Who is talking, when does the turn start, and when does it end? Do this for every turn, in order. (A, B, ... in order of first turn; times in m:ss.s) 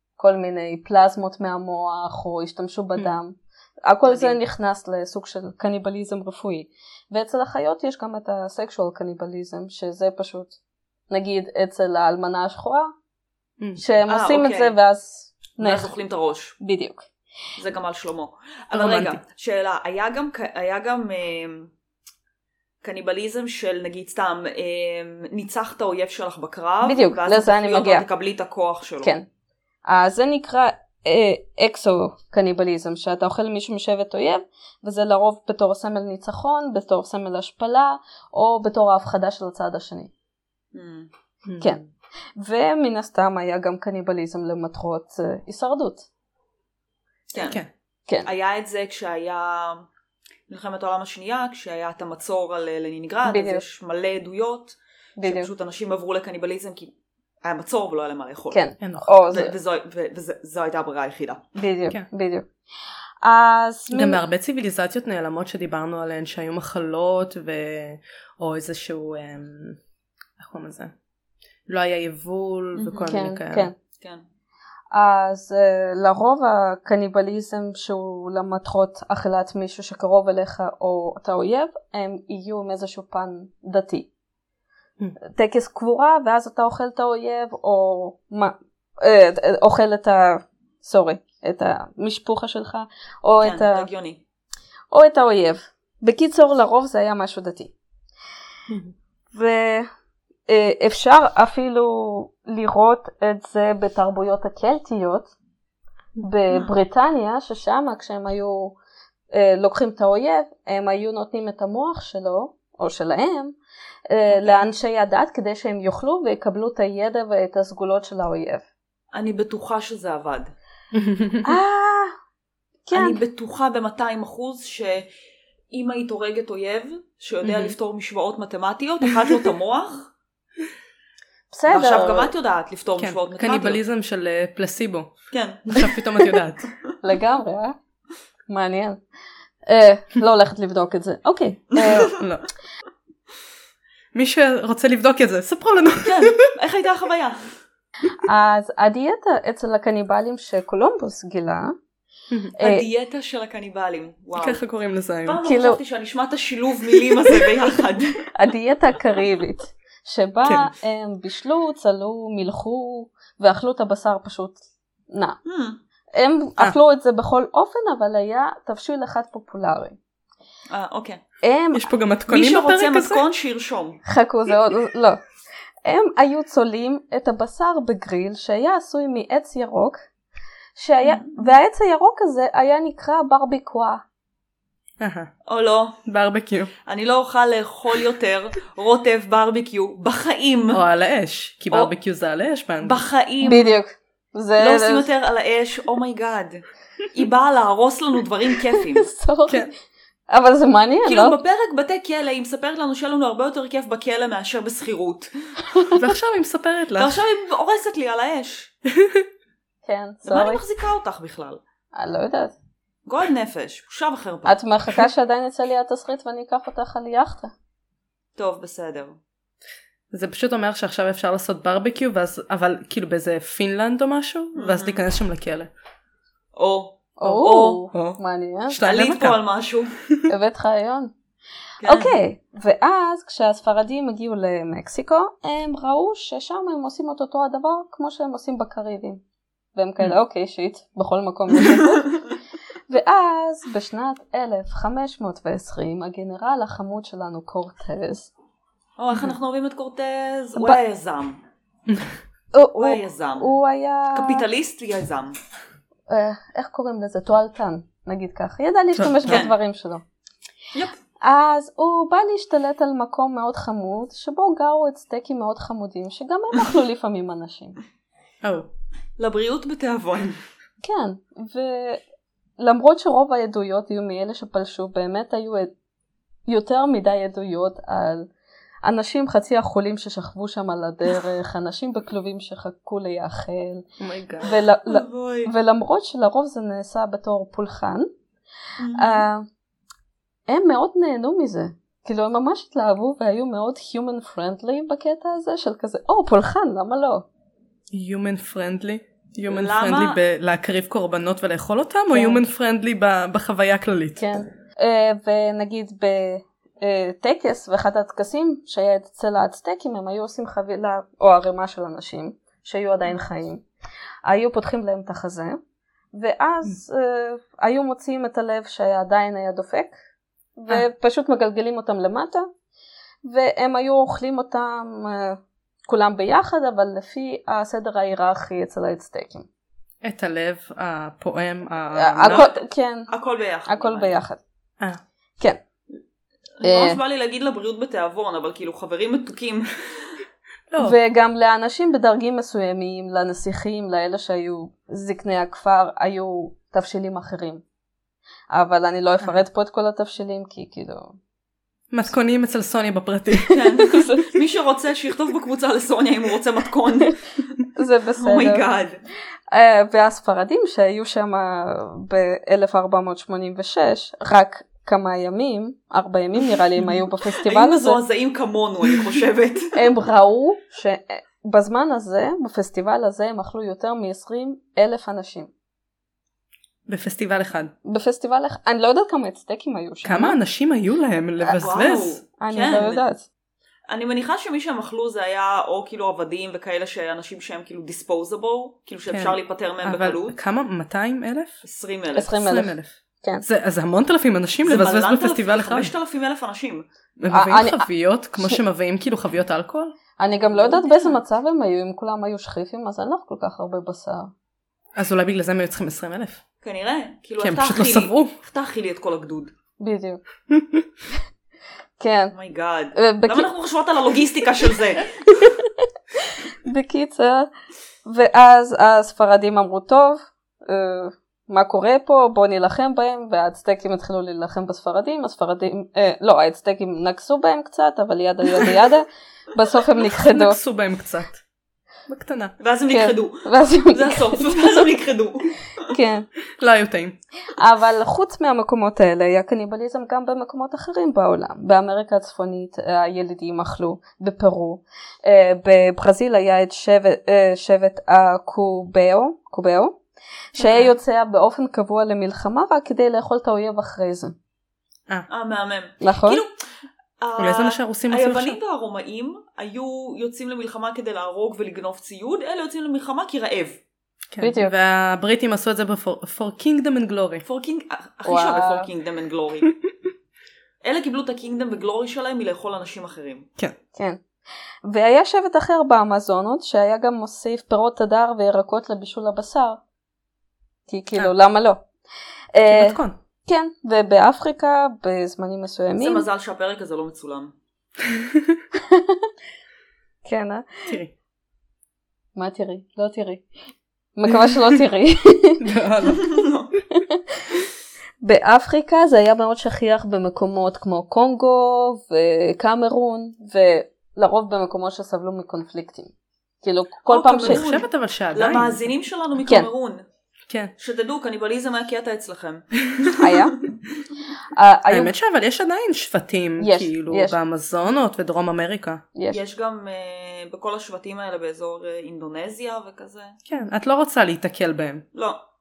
0:00.2-0:10.6 A
0:04.1-0:04.4 B
0:11.1-0:12.9 A
0:13.8-0:15.9 A
0:14.1-0:14.7 B
0:15.6-0:16.6 B
0:16.6-0:17.1 A
0:17.6-0:21.7 B
0:18.7-0:19.2 C
0:22.8-0:29.1 B
0:26.8-0:28.1 A
0:29.9-0:40.1 A
0:40.7-0:41.1 B
0:41.5-0:41.8 C
0:42.4-0:46.1 A
0:47.3-0:47.6 B
0:47.4-0:47.7 C
0:48.2-0:49.9 B
0:50.5-0:58.6 B
0:53.3-0:53.6 A
0:55.2-0:55.5 A
0:58.5-0:59.5 A
0:58.8-0:59.1 C
0:59.3-1:01.4 B
1:01.6-1:02.5 A
1:03.2-1:04.2 A
1:03.9-1:09.8 C
1:10.4-1:10.9 C
1:11.7-1:13.7 C
1:12.8-1:13.2 B
1:13.1-1:13.7 A
1:14.0-1:14.2 B
1:14.9-1:24.1 A
1:25.2-1:33.9 A
1:33.4-1:34.2 B
1:34.9-1:37.7 A
1:38.7-1:38.9 C
1:39.3-1:39.9 A
1:40.5-1:45.3 A
1:46.2-1:48.8 A
1:49.3-1:53.6 A
1:54.1-1:58.7 A
1:54.3-1:54.7 B
1:59.1-2:00.5 B
2:00.9-2:01.6 C
2:01.4-2:02.1 A
2:02.9-2:03.2 A
2:02.9-2:05.1 B
2:05.7-2:10.1 B
2:07.4-2:07.8 C
2:11.5-2:12.3 A
2:11.7-2:13.8 B
2:13.0-2:15.1 C
2:15.3-2:16.0 B
2:15.7-2:16.7 C
2:17.0-2:17.8 A
2:18.5-2:19.0 A
2:19.7-2:22.2 A
2:21.8-2:22.1 B
2:22.2-2:22.4 C
2:24.1-2:26.4 C
2:26.0-2:27.4 B
2:28.2-2:31.8 A
2:32.6-2:32.8 A
2:32.6-2:34.6 B
2:34.4-2:35.4 C
2:35.3-2:38.3 B
2:35.4-2:35.8 A
2:38.3-2:45.4 A
2:40.4-2:40.7 C
2:45.4-2:45.8 B
2:46.1-2:50.0 A
2:50.7-2:51.2 B
2:51.4-2:51.9 A
2:51.7-2:53.2 C
2:52.3-2:54.0 B
2:54.1-2:55.2 A
2:55.8-3:00.0 A
3:00.8-3:04.0 A
3:01.0-3:01.5 B
3:05.0-3:05.3 C
3:05.5-3:06.0 B
3:06.1-3:06.7 C
3:06.9-3:10.8 B
3:10.7-3:13.0 C
3:12.8-3:13.8 B
3:13.4-3:15.1 A
3:14.6-3:19.1 B
3:18.9-3:19.7 A
3:20.3-3:21.4 A
3:21.0-3:25.3 B
3:25.7-3:26.0 A
3:26.0-3:27.2 C
3:27.0-3:28.7 B
3:28.9-3:29.3 C
3:29.8-3:30.6 A
3:30.2-3:31.6 B
3:31.9-3:32.5 A
3:33.1-3:34.6 B
3:34.5-3:37.5 A
3:38.4-3:39.2 B
3:40.1-3:45.7 C
3:44.6-3:45.0 B
3:46.6-3:47.8 B
3:47.2-3:48.8 A
3:47.9-3:49.4 C
3:48.8-3:49.9 B
3:50.3-3:51.1 A
3:51.8-3:52.2 B
3:51.8-3:59.2 A
3:59.8-4:02.2 A
4:01.6-4:02.2 B
4:02.9-4:08.3 A
4:09.0-4:11.4 B
4:12.5-4:14.4 A
4:12.8-4:13.5 B
4:14.1-4:15.4 B
4:16.1-4:20.0 A
4:19.0-4:19.4 C
4:19.3-4:19.5 B
4:21.2-4:27.8 A
4:28.4-4:28.7 C
4:29.2-4:30.4 B
4:30.8-4:32.0 A
4:32.6-4:35.7 A
4:36.5-4:38.3 A
4:38.8-4:43.9 A
4:44.0-4:44.6 C
4:44.4-4:48.1 A
4:44.9-4:45.5 B
4:48.8-4:49.3 B
4:48.9-4:49.5 A
4:50.5-4:57.3 A
4:57.9-5:04.2 C
4:59.5-5:00.2 B
5:02.1-5:02.4 A
5:04.2-5:13.6 A
5:14.2-5:15.6 A
5:16.1-5:20.0 A
5:20.6-5:22.5 A
5:23.3-5:29.5 A
5:30.0-5:32.5 C
5:31.9-5:33.1 A
5:32.2-5:34.2 B
5:33.7-5:34.4 A
5:36.6-5:40.2 B
5:36.6-5:37.0 A
5:40.7-5:41.0 C
5:40.8-5:47.6 A
5:48.5-5:51.2 A
5:51.9-5:53.6 C
5:53.5-5:57.5 B
5:53.9-5:54.2 A
5:57.8-5:58.6 A
5:58.2-5:59.0 B
5:59.5-6:08.0 A
6:07.3-6:09.8 B
6:09.7-6:15.5 A
6:16.9-6:17.7 C
6:17.8-6:20.4 A
6:20.0-6:22.2 C
6:21.5-6:23.0 B
6:22.4-6:23.3 A
6:23.9-6:30.4 B
6:29.1-6:31.6 C
6:31.6-6:32.4 B
6:32.2-6:33.4 A
6:32.3-6:35.9 C
6:34.6-6:36.9 B
6:37.2-6:40.0 C
6:37.3-6:38.6 A
6:40.2-6:44.3 A
6:40.5-6:41.2 B
6:45.0-6:46.4 C
6:46.6-6:49.5 B
6:47.4-6:48.3 C
6:49.8-6:50.2 A
6:50.5-6:50.9 C
6:52.0-6:52.3 A
6:52.3-6:55.4 B
6:53.0-6:53.5 A
6:55.4-6:57.5 A
6:58.0-7:10.6 A
7:10.1-7:11.4 C
7:12.1-7:12.6 C
7:12.6-7:15.9 B
7:12.9-7:14.8 A
7:15.9-7:16.3 A
7:16.6-7:17.2 C
7:17.6-7:30.0 A
7:30.6-7:34.4 A
7:30.6-7:30.9 B
7:35.3-7:36.5 B
7:36.0-7:36.4 A
7:37.2-7:43.8 B
7:37.4-7:38.6 C
7:44.3-7:47.4 C
7:44.4-7:44.7 A
7:47.4-7:49.7 B
7:48.3-7:48.9 A
7:50.8-7:53.5 B
7:54.0-7:54.2 A
7:54.9-7:59.8 A
8:00.9-8:01.8 A
8:02.5-8:06.3 A
8:02.7-8:03.2 C
8:06.0-8:07.5 B
8:08.0-8:08.6 C
8:08.8-8:09.2 A
8:10.2-8:11.0 A
8:10.9-8:11.1 C
8:12.4-8:13.5 A
8:14.2-8:15.6 A
8:15.6-8:16.4 C
8:16.1-8:16.7 B
8:16.9-8:17.4 A
8:18.2-8:27.6 A
8:27.1-8:30.0 B
8:27.4-8:28.8 C
8:29.4-8:29.7 A
8:30.8-8:33.8 B
8:33.2-8:33.7 A
8:34.5-8:35.2 A
8:34.9-8:39.0 C
8:36.6-8:37.4 A
8:39.3-8:43.4 B
8:43.5-8:45.1 C
8:45.1-8:45.4 B